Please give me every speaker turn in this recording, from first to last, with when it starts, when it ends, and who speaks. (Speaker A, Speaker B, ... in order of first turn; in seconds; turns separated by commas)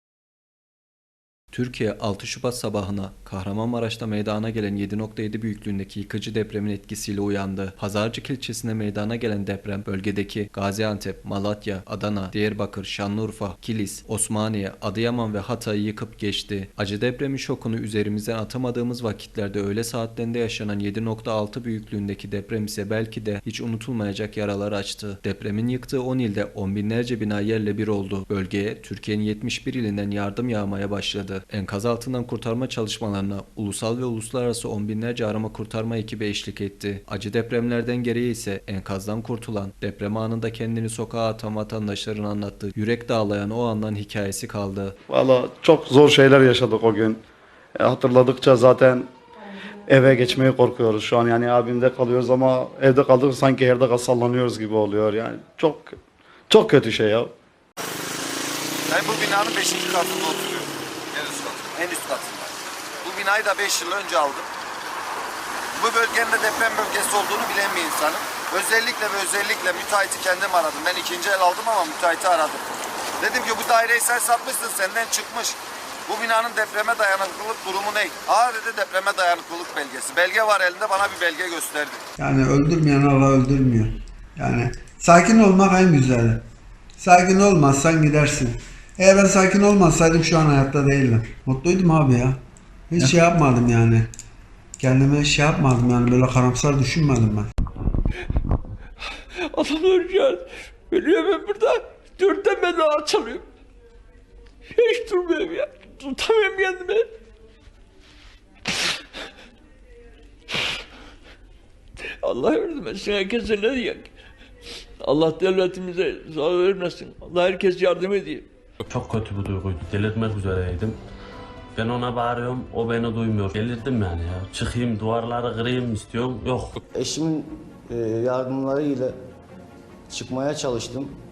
Speaker A: 1.5-45.0, Speaker B: 45.1-47.2, Speaker B: 47.8-49.1, Speaker B: 49.9-56.0, Speaker B: 56.5-57.3, Speaker C: 58.9-64.5, Speaker C: 65.8-72.7, Speaker C: 73.2-82.0, Speaker D: 82.2-86.4, Speaker D: 87.0-94.1, Speaker D: 94.8-97.5, Speaker E: 99.5-103.4, Speaker E: 104.7-107.1, Speaker E: 112.2-114.1, Speaker E: 115.0-118.5, Speaker F: 118.9-121.0, Speaker F: 121.8-126.8, Speaker G: 126.9-129.1, Speaker G: 130.1-131.1